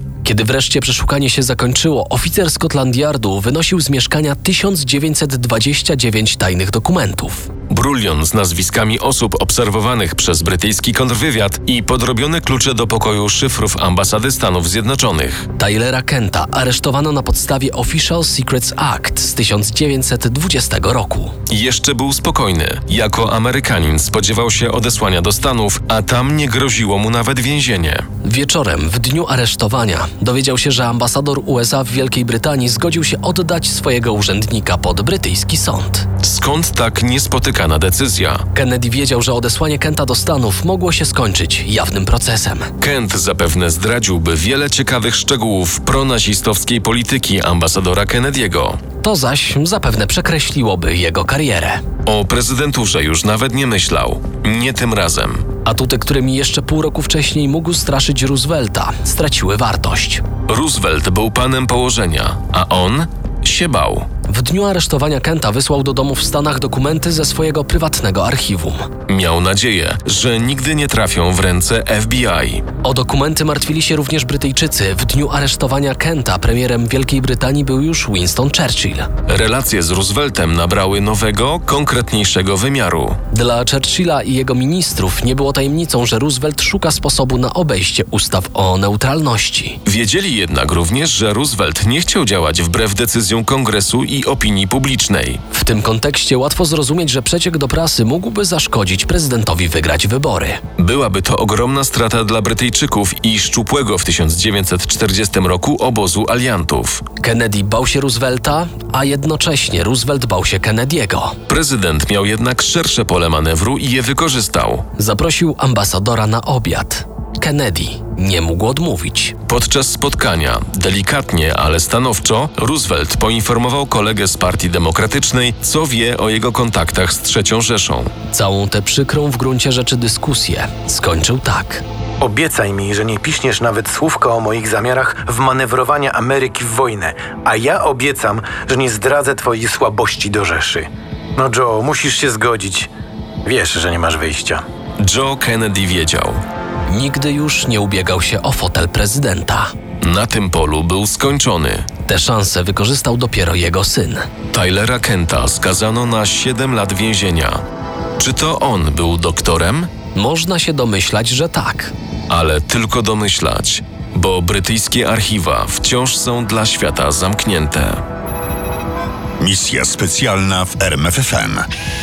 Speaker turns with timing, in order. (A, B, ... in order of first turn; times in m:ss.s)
0:00.2-0:07.5 A
0:07.7-0:15.5 B
0:15.6-0:21.3 A
0:21.5-0:28.1 B
0:28.2-0:36.1 A
0:36.2-0:38.4 B
0:38.5-0:42.7 A
0:42.8-0:48.8 B
0:49.0-0:51.8 A
0:52.0-0:55.5 B
0:55.6-1:00.2 A
1:00.5-1:04.1 B
1:04.3-1:08.9 A
1:09.1-1:12.6 B
1:12.8-1:19.1 A
1:19.3-1:23.2 B
1:23.3-1:29.8 A
1:29.8-1:35.4 B
1:35.5-1:40.6 A
1:40.8-1:47.0 B
1:47.2-1:51.4 A
1:51.5-1:54.9 B
1:55.0-1:59.4 A
1:59.5-2:08.1 B
2:08.3-2:11.8 A
2:12.2-2:22.9 C
2:23.5-2:24.6 C
2:25.0-2:26.4 B
2:26.9-2:29.7 A
2:30.0-2:31.9 B
2:32.1-2:34.3 A
2:34.5-2:37.6 B
2:38.2-2:39.9 B
2:40.2-2:41.9 A
2:42.3-2:48.0 B
2:49.4-2:51.7 D